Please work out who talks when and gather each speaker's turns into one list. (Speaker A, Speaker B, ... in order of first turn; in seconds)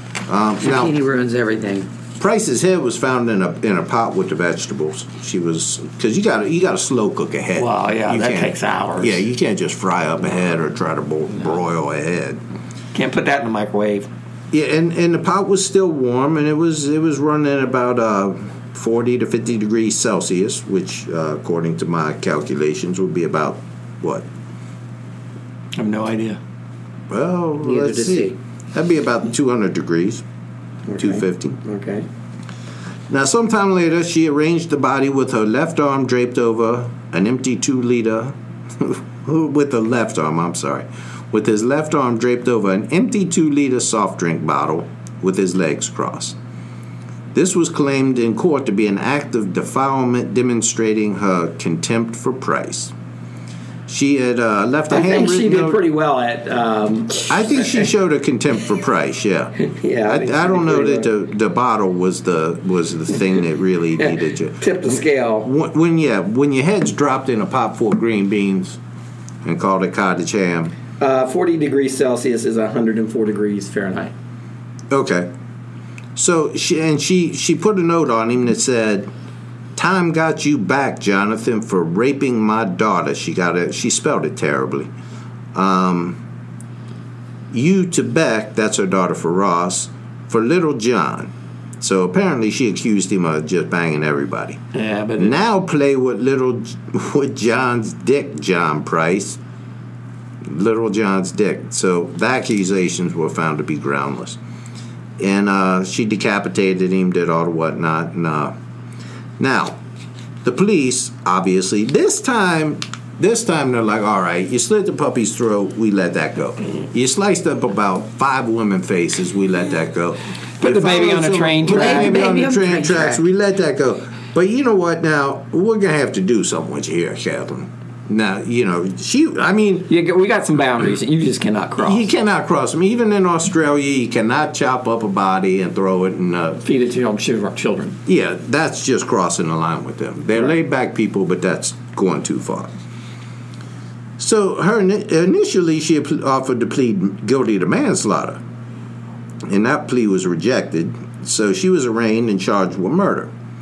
Speaker A: 0.3-0.9, 2.2-12.4, 14.5-24.2, 27.1-30.2, 31.0-31.6, 33.1-46.4, 47.3-52.9, 53.9-55.8, 57.3-59.5, 60.0-64.6, 65.4-68.8, 69.4-70.7, 74.9-75.3, 76.2-79.1, 79.8-84.9, 85.5-86.2, 87.5-94.6, 95.2-99.4, 100.5-104.4, 105.2-108.5, 109.4-109.8, 110.4-129.9, 131.8-136.6, 138.1-142.7, 144.2-148.4, 149.4-153.3
Speaker B: 0.6-1.9, 27.6-28.3, 121.7-123.2
Speaker C: 7.5-9.2, 12.9-14.1, 25.8-26.4, 30.9-32.0, 54.9-57.9, 59.6-61.1, 64.0-65.5, 71.0-74.1, 94.7-95.3, 120.6-122.2, 129.9-132.1, 136.6-138.0